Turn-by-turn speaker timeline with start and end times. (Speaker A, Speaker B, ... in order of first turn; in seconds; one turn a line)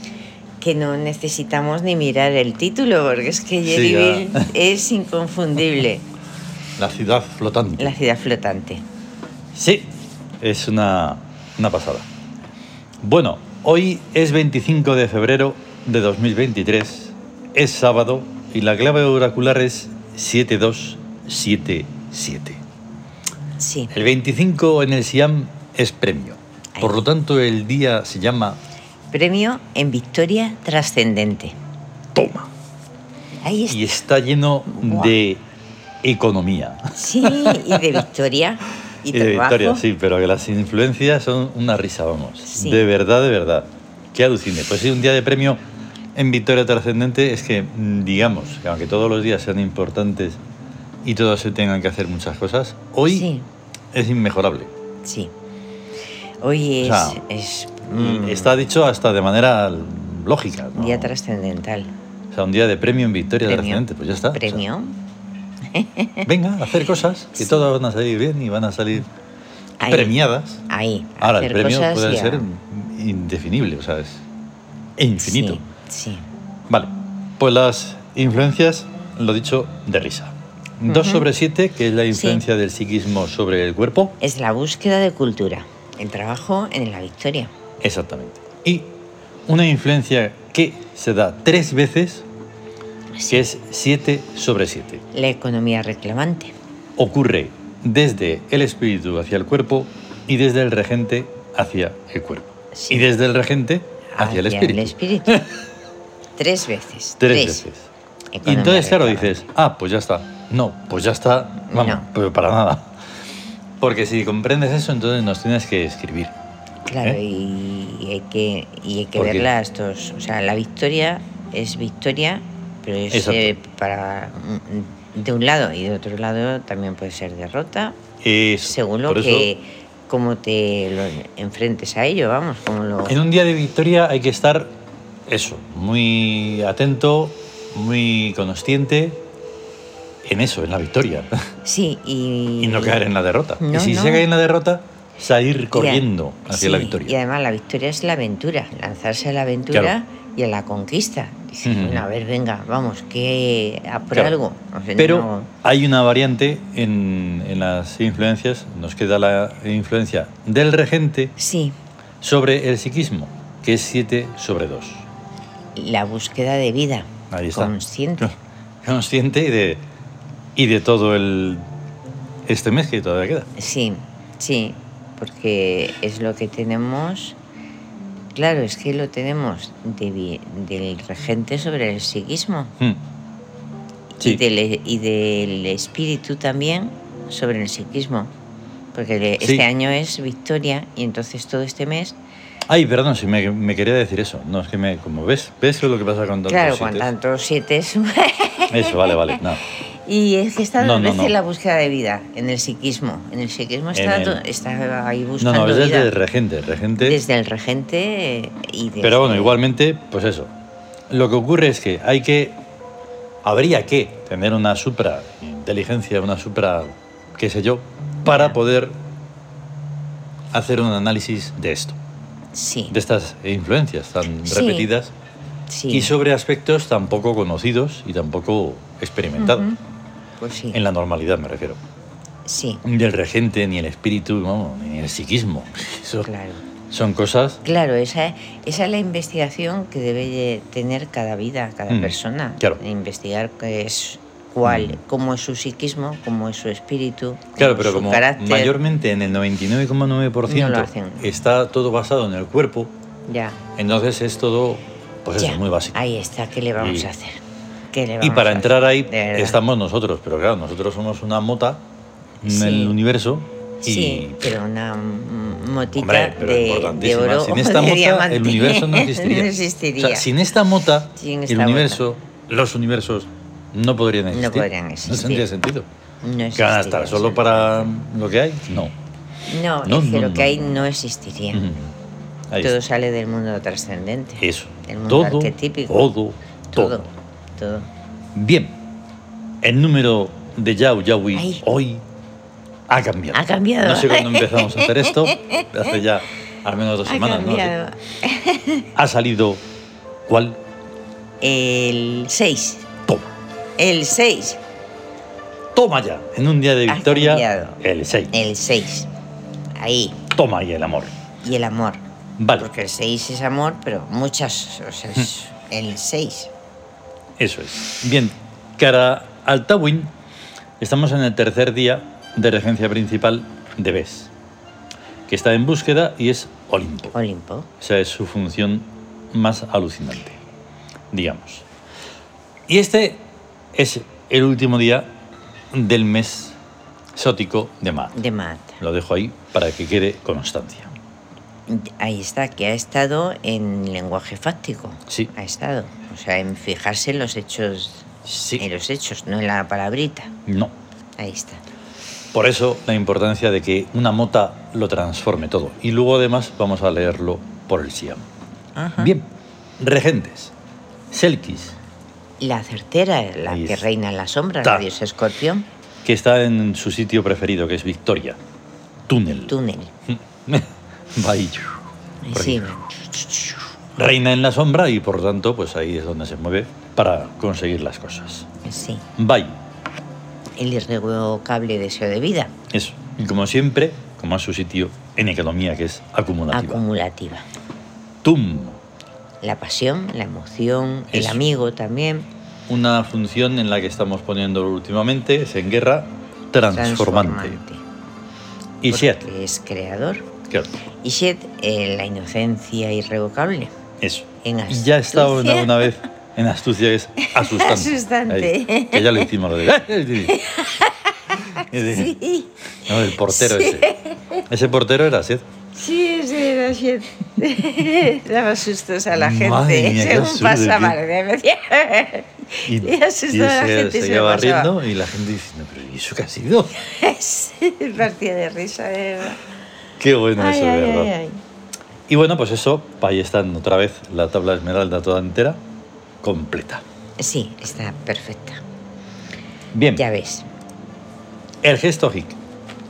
Speaker A: 0.6-6.0
Speaker B: 3.6-4.5
Speaker B: 6.8-8.0
Speaker A: 7.8-8.8
Speaker B: 9.5-12.1
Speaker B: 13.0-22.6
Speaker A: 23.6-23.9
Speaker B: 23.9-28.6
Speaker A: 26.7-27.1
Speaker A: 29.1-31.6
Speaker B: 32.1-32.5
Speaker A: 33.4-34.0
Speaker B: 33.7-35.4
Speaker A: 34.7-35.1
Speaker B: 36.0-38.0
Speaker A: 36.9-39.8
Speaker B: 39.1-45.6
Speaker A: 42.4-42.9
Speaker B: 46.1-50.4
Speaker B: 51.0-53.3
Speaker A: 53.1-53.5
Speaker B: 53.9-54.7
Speaker A: 55.0-55.3
Speaker A: 56.4-58.6
Speaker B: 56.8-57.2
Speaker B: 57.9-61.1
Speaker A: 60.7-61.9
Speaker B: 62.3-64.6
Speaker A: 63.4-65.0
Speaker A: 65.7-66.3
Speaker B: 66.2-69.1
Speaker A: 67.4-67.7
Speaker A: 69.8-72.5
Speaker B: 69.8-70.6
Speaker B: 71.2-74.2
Speaker B: 75.0-75.6
Speaker A: 75.2-76.3
Speaker B: 76.7-84.2
Speaker A: 80.8-81.3
Speaker A: 82.1-82.4
Speaker A: 84.2-87.5
Speaker B: 87.8-88.9
Speaker B: 89.5-92.2
Speaker A: 93.2-93.4
Speaker B: 93.3-95.0
Speaker A: 95.1-96.5
Speaker B: 97.0-105.5
Speaker A: 102.7-103.1
Speaker A: 104.1-105.4
Speaker A: 106.4-107.6
Speaker B: 107.2-107.9
Speaker A: 108.3-109.5
Speaker B: 108.4-112.9
Speaker A: 111.7-112.1
Speaker B: 113.8-116.3
Speaker A: 116.8-128.0
Speaker B: 119.2-119.5
Speaker B: 123.1-123.5
Speaker B: 128.2-129.5
Speaker A: 128.6-133.2
Speaker B: 133.1-134.7
Speaker B: 135.3-139.2
Speaker B: 140.2-141.3
Speaker A: 141.6-143.0
Speaker B: 142.6-147.1
Speaker A: 143.6-144.2
Speaker A: 145.7-155.5
Speaker B: 151.6-152.1
Speaker B: 155.0-161.3
Speaker A: 161.4-161.7
Speaker B: 162.2-165.0
Speaker A: 165.8-168.3
Speaker B: 167.3-169.8
Speaker B: 170.6-171.6
Speaker B: 172.4-173.5
Speaker A: 173.6-177.4
Speaker A: 178.3-182.7
Speaker A: 184.2-188.3
Speaker A: 188.9-192.2
Speaker B: 189.4-189.7
Speaker B: 192.7-197.1
Speaker A: 196.5-206.1
Speaker B: 198.7-199.6
Speaker B: 200.8-201.3
Speaker B: 203.9-204.4
Speaker B: 205.4-207.2
Speaker A: 207.0-209.6
Speaker B: 209.0-210.5
Speaker B: 211.1-212.6
Speaker B: 213.4-219.0
Speaker A: 218.2-218.6
Speaker B: 220.5-222.0
Speaker A: 222.5-222.9
Speaker B: 222.9-225.1
Speaker A: 224.4-224.9
Speaker A: 225.7-226.1
Speaker B: 225.9-229.7
Speaker A: 229.4-229.8
Speaker A: 230.4-230.8
Speaker B: 230.7-231.8
Speaker A: 232.4-232.8
Speaker B: 232.8-236.3
Speaker A: 236.2-236.6
Speaker B: 236.9-237.6
Speaker A: 237.6-248.7
Speaker B: 241.9-242.8
Speaker B: 244.6-245.0
Speaker B: 247.6-252.9
Speaker A: 250.4-251.3
Speaker A: 253.3-253.6
Speaker B: 253.8-255.9
Speaker A: 255.4-257.4
Speaker B: 256.8-257.1
Speaker A: 257.9-259.6
Speaker B: 258.2-261.8
Speaker A: 262.4-262.9
Speaker B: 262.4-264.4
Speaker A: 263.8-270.3
Speaker B: 265.9-275.9
Speaker A: 271.1-272.0
Speaker A: 274.3-275.5
Speaker A: 276.2-277.9
Speaker B: 276.6-278.9
Speaker A: 279.5-281.7
Speaker B: 279.8-280.8
Speaker B: 281.5-281.9
Speaker B: 282.5-282.8
Speaker A: 282.6-286.1
Speaker B: 284.4-287.1
Speaker A: 286.7-287.9
Speaker B: 288.3-288.8
Speaker B: 289.6-292.0
Speaker A: 291.3-291.6
Speaker B: 292.9-297.7
Speaker A: 293.3-295.9
Speaker A: 297.0-298.9
Speaker B: 298.9-299.6
Speaker B: 300.3-300.6
Speaker A: 301.4-302.9
Speaker A: 303.8-304.6
Speaker B: 305.7-308.3
Speaker A: 306.9-307.8
Speaker A: 308.3-309.1
Speaker A: 309.8-310.2
Speaker B: 310.3-311.1
Speaker A: 311.4-312.0
Speaker B: 312.4-312.7
Speaker A: 312.6-316.5
Speaker B: 317.4-320.1
Speaker B: 320.8-324.3
Speaker B: 325.3-327.1
Speaker A: 327.1-327.7
Speaker B: 327.8-330.4
Speaker B: 331.1-331.6
Speaker B: 332.7-335.1
Speaker B: 335.7-336.6
Speaker B: 337.1-338.1
Speaker A: 338.1-338.8
Speaker B: 338.8-340.9
Speaker A: 341.7-350.3
Speaker B: 348.2-348.6
Speaker B: 350.4-350.7
Speaker A: 351.2-351.6
Speaker B: 352.3-358.2
Speaker A: 358.7-359.1
Speaker B: 359.0-359.3
Speaker B: 359.8-360.5
Speaker B: 361.1-361.8
Speaker A: 362.4-365.6
Speaker B: 363.5-363.9
Speaker B: 366.0-368.4
Speaker B: 369.1-369.5
Speaker A: 369.5-369.9
Speaker B: 370.1-371.8
Speaker A: 372.2-372.9
Speaker B: 372.3-378.5
Speaker A: 378.6-379.0
Speaker B: 379.1-379.5
Speaker A: 380.6-382.5
Speaker B: 382.7-386.8
Speaker A: 386.5-387.4
Speaker B: 388.2-388.8
Speaker A: 389.4-392.3
Speaker B: 391.1-391.4
Speaker B: 392.7-397.6
Speaker A: 396.7-397.8
Speaker B: 398.8-399.2
Speaker A: 398.9-400.3
Speaker A: 401.0-403.7
Speaker B: 404.0-410.4
Speaker A: 404.4-405.9
Speaker A: 407.2-409.3
Speaker A: 410.3-412.5
Speaker B: 411.5-412.1
Speaker B: 412.9-413.9
Speaker A: 413.0-414.4
Speaker B: 414.5-415.4
Speaker A: 415.7-424.7
Speaker B: 419.1-421.0
Speaker B: 422.6-426.8
Speaker A: 426.8-429.4
Speaker B: 430.0-431.1
Speaker A: 430.4-431.4
Speaker B: 432.1-435.6
Speaker B: 436.2-436.8
Speaker A: 437.2-438.6
Speaker B: 439.7-440.0
Speaker A: 439.9-440.5
Speaker B: 441.6-442.4